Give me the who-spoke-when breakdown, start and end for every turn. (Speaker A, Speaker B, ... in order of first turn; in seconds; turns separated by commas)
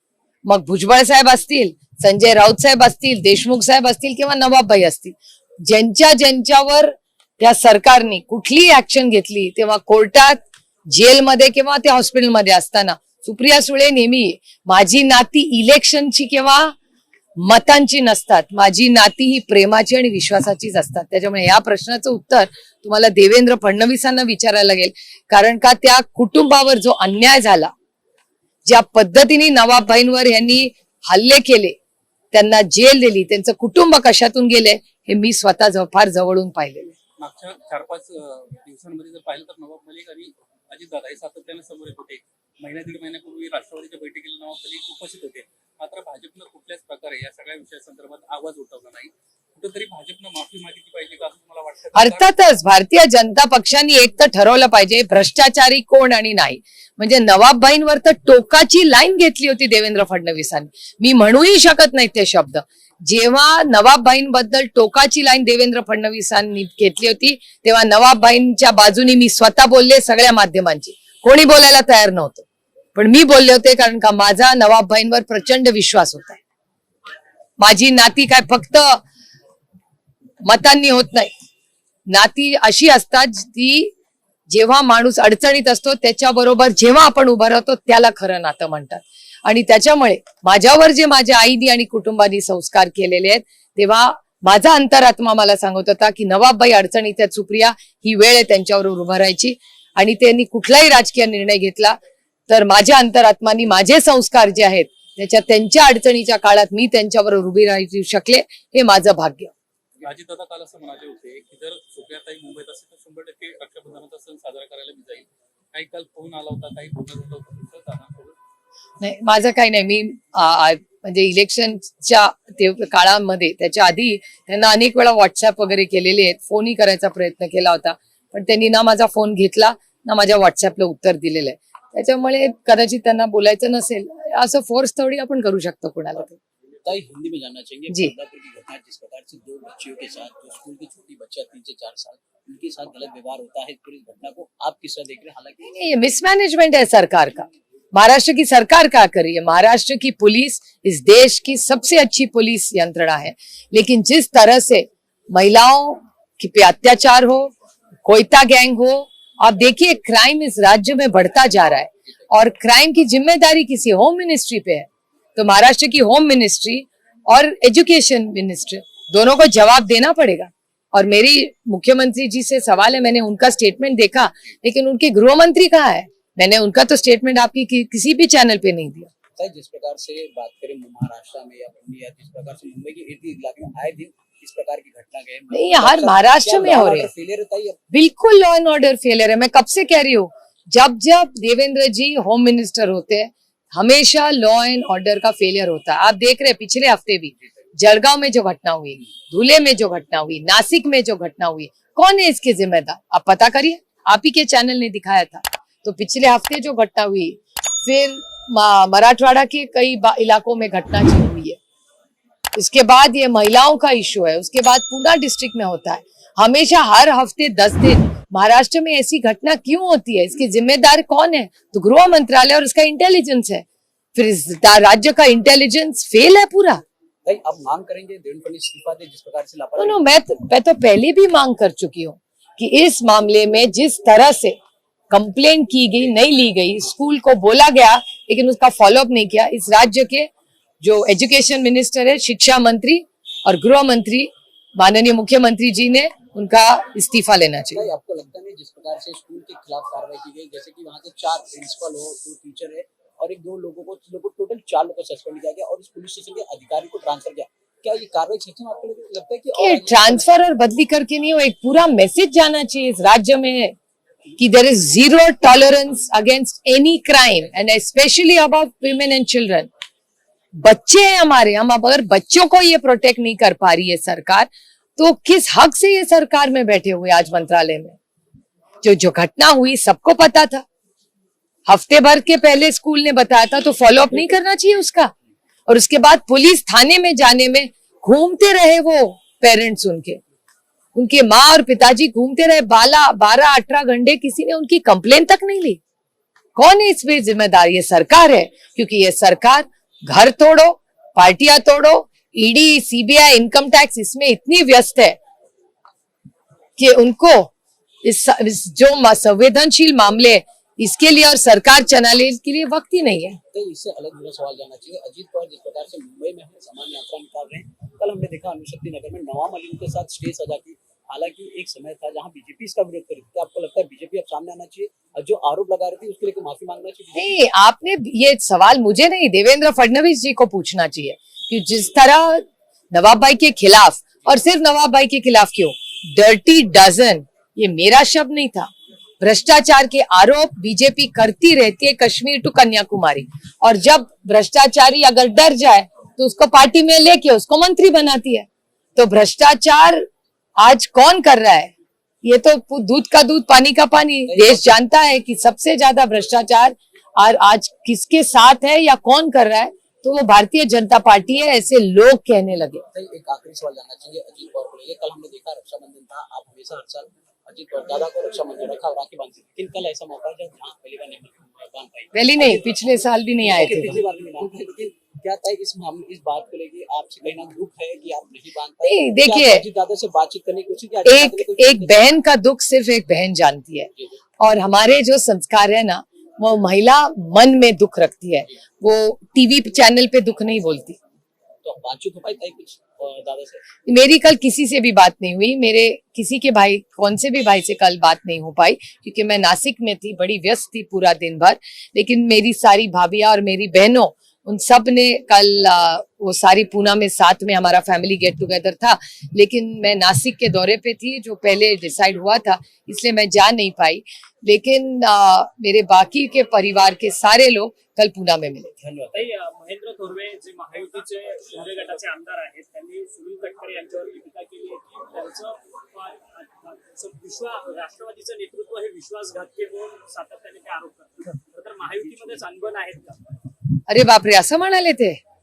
Speaker A: 0.5-16.7, Speaker A: 17.4-27.7, Speaker A: 28.6-31.7, Speaker A: 32.3-36.9, Speaker B: 37.2-52.3, Speaker A: 51.9-76.4, Speaker A: 77.6-79.0, Speaker A: 80.4-81.3, Speaker A: 82.1-83.9, Speaker A: 84.5-102.0, Speaker A: 102.5-109.5, Speaker B: 110.0-118.3, Speaker A: 119.0-136.4, Speaker C: 136.8-145.8, Speaker A: 145.7-157.5, Speaker A: 158.0-179.1, Speaker C: 179.4-187.8, Speaker A: 185.5-187.1, Speaker A: 187.9-211.6, Speaker A: 212.5-226.8, Speaker C: 227.2-230.0, Speaker A: 229.8-234.6, Speaker A: 235.1-240.3, Speaker A: 240.8-247.9, Speaker C: 247.7-260.3, Speaker A: 259.6-263.7, Speaker A: 264.4-269.7, Speaker A: 270.6-278.0, Speaker A: 278.8-280.6, Speaker A: 281.7-285.1, Speaker A: 285.7-290.2, Speaker A: 290.9-295.8, Speaker A: 296.6-305.1, Speaker A: 306.8-307.5, Speaker A: 308.0-313.4, Speaker C: 313.5-327.4, Speaker A: 327.1-338.7, Speaker A: 339.2-350.0, Speaker A: 350.6-351.7, Speaker A: 352.2-362.8, Speaker C: 354.3-354.8, Speaker C: 362.9-382.1, Speaker A: 372.1-374.0, Speaker A: 378.8-379.6, Speaker A: 381.0-391.0, Speaker C: 391.6-393.6, Speaker A: 393.9-418.7, Speaker C: 418.8-419.1, Speaker D: 419.1-433.4, Speaker A: 433.9-435.2